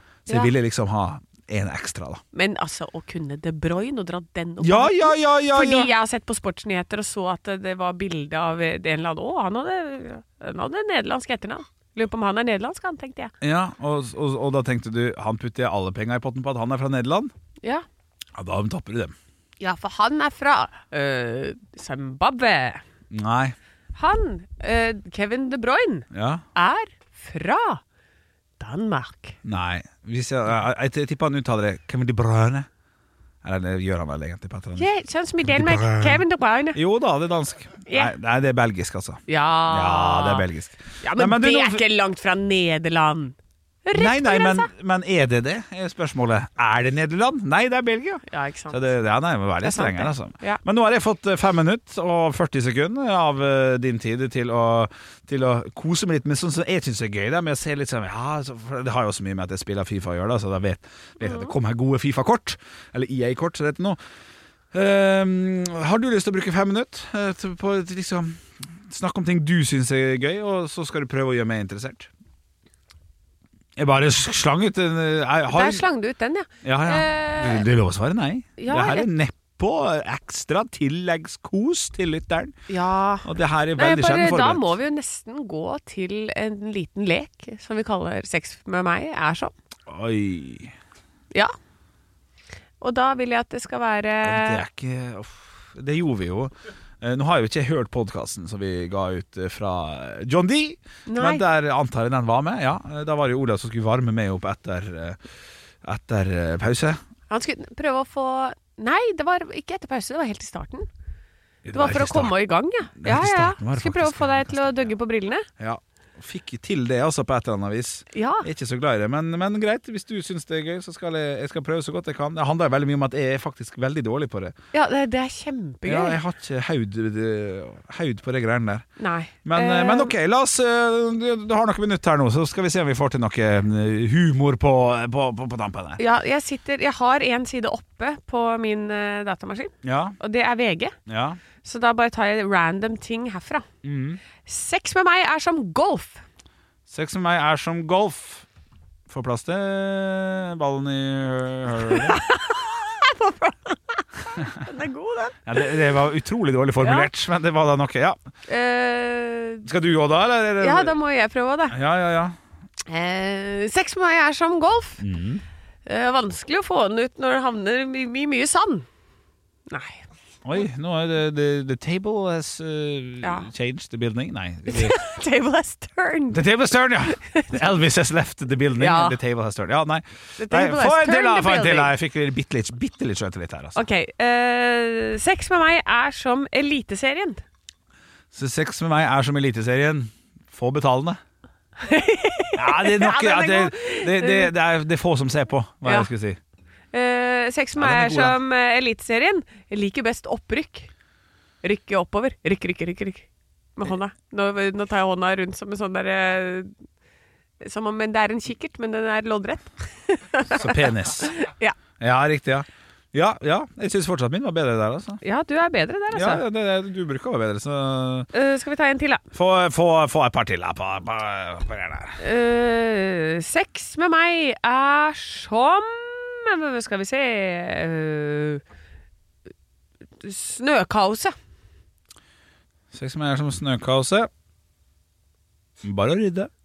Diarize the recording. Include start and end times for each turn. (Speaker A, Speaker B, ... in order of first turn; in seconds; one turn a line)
Speaker A: 0.3-2.2
Speaker B: 0.3-0.5
Speaker B: 2.3-13.3
Speaker A: 4.6-5.9
Speaker A: 13.4-17.3
Speaker A: 18.4-19.1
Speaker B: 19.6-22.8
Speaker A: 23.1-23.6
Speaker B: 23.9-27.8
Speaker A: 26.1-26.4
Speaker B: 28.6-29.4
Speaker A: 29.4-32.7
Speaker A: 33.4-34.9
Speaker B: 34.8-36.8
Speaker A: 35.4-41.9
Speaker B: 37.9-38.1
Speaker B: 39.3-40.5
Speaker B: 41.0-44.7
Speaker A: 43.9-64.0
Speaker B: 48.3-48.9
Speaker B: 49.6-50.6
Speaker B: 61.2-61.5
Speaker A: 64.7-72.1
Speaker A: 73.8-75.9
Speaker B: 75.5-77.7
Speaker A: 76.6-82.5
Speaker B: 78.6-79.1
Speaker B: 82.7-89.5
Speaker A: 83.2-84.8
Speaker A: 89.9-90.7
Speaker B: 92.8-94.6
Speaker A: 94.2-105.2
Speaker B: 101.1-101.4
Speaker A: 105.8-107.0
Speaker B: 107.3-110.9
Speaker A: 111.7-112.4
Speaker B: 111.7-115.5
Speaker A: 113.0-114.9
Speaker A: 115.6-124.5
Speaker B: 118.1-118.5
Speaker B: 124.7-126.2
Speaker A: 125.8-128.9
Speaker B: 129.0-130.1
Speaker A: 129.4-136.0
Speaker B: 136.0-141.0
Speaker A: 139.8-140.2
Speaker A: 141.1-141.4
Speaker B: 141.6-143.7
Speaker A: 143.8-144.2
Speaker B: 144.4-146.2
Speaker A: 146.9-148.5
Speaker A: 149.1-152.2
Speaker B: 151.9-155.7
Speaker A: 155.5-158.2
Speaker B: 156.8-157.1
Speaker B: 158.5-159.7
Speaker A: 159.7-161.0
Speaker B: 160.6-161.8
Speaker A: 161.7-162.4
Speaker B: 162.9-165.1
Speaker A: 165.0-165.4
Speaker B: 165.9-168.9
Speaker B: 169.7-170.1
Speaker A: 170.4-175.0
Speaker B: 173.2-173.5
Speaker B: 174.7-176.4
Speaker A: 176.3-183.8
Speaker B: 177.2-177.5
Speaker B: 178.8-179.2
Speaker B: 180.4-181.9
Speaker B: 183.8-187.4
Speaker A: 188.3-191.2
Speaker B: 191.8-194.5
Speaker A: 192.6-196.4
Speaker B: 195.8-196.1
Speaker B: 196.9-200.9
Speaker A: 197.8-198.4
Speaker B: 201.6-206.7
Speaker B: 207.6-211.8
Speaker A: 210.5-211.3
Speaker A: 212.0-215.2
Speaker B: 215.2-216.4
Speaker A: 216.1-218.3
Speaker B: 218.3-219.2
Speaker A: 219.3-222.2
Speaker B: 222.2-228.6
Speaker B: 230.2-231.3
Speaker A: 232.9-234.3
Speaker A: 235.8-236.5